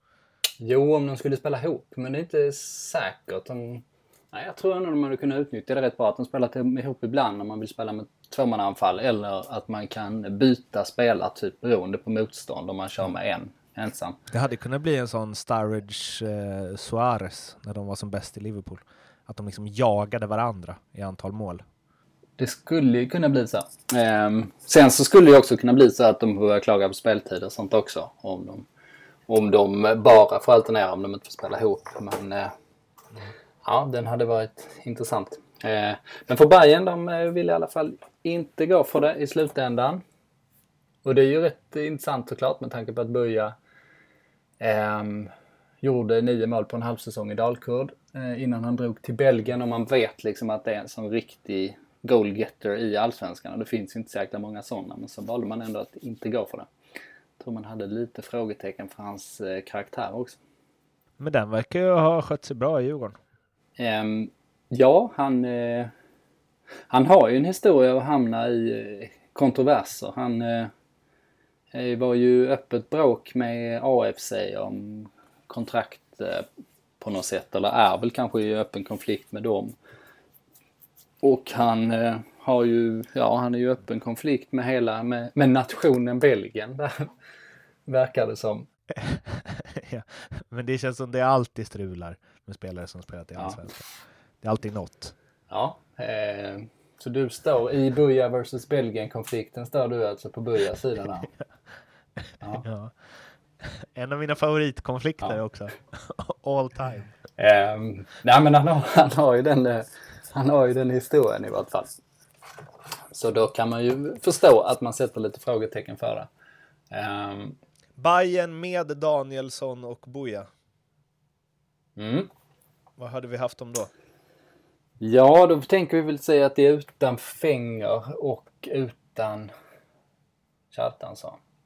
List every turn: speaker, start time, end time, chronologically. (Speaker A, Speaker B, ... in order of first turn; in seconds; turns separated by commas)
Speaker A: 0.6-14.2, Speaker B: 14.3-21.6, Speaker A: 22.4-28.7, Speaker A: 29.3-32.5, Speaker A: 33.6-40.0, Speaker A: 41.0-43.5, Speaker A: 44.6-56.7, Speaker A: 57.4-60.4, Speaker B: 61.2-63.2, Speaker A: 63.8-65.9, Speaker A: 66.9-70.7, Speaker A: 71.7-76.5, Speaker A: 77.0-79.7, Speaker A: 81.2-87.1, Speaker A: 87.9-88.7, Speaker B: 88.9-93.8, Speaker A: 93.4-93.7, Speaker B: 94.4-95.1, Speaker A: 95.5-101.3, Speaker B: 102.2-107.1, Speaker A: 107.4-111.9, Speaker A: 113.1-116.3, Speaker A: 116.9-117.6, Speaker B: 118.0-120.5, Speaker A: 122.0-122.3, Speaker B: 123.0-123.9, Speaker A: 125.0-129.5, Speaker A: 130.7-131.4